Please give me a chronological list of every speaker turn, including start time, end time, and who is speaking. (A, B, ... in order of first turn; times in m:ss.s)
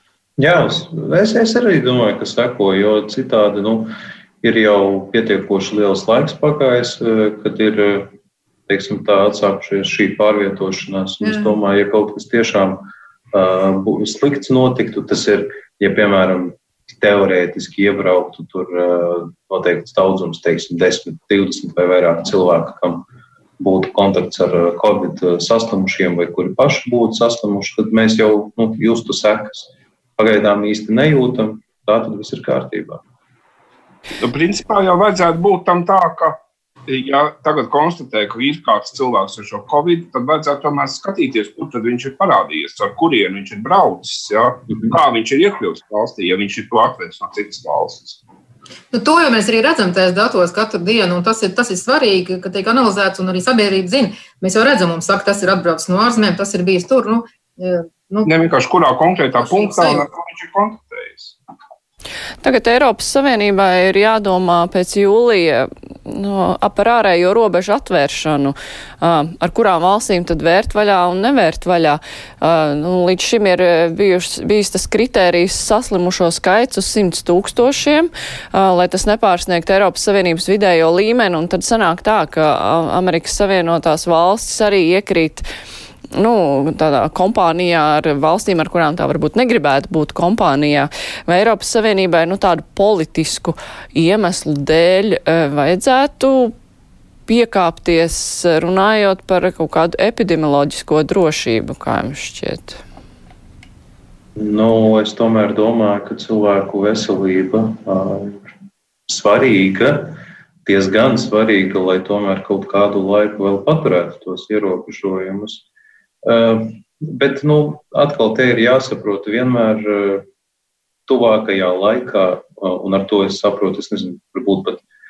0:00.4-0:03.9 A
0:04.4-0:08.1 A
0:08.7-0:23.0 A
0:11.2-0:11.6 B
0:23.6-0:33.0 A
0:34.2-0:48.2 C
0:48.9-0:58.3 B
0:58.3-1:01.4 C
0:59.4-1:00.1 B
1:02.4-1:25.5 D
1:26.1-1:36.5 D
1:37.3-1:42.8 D
1:44.4-1:48.4 A
1:49.1-1:55.6 A
1:56.2-2:00.2 A
2:01.1-2:04.8 A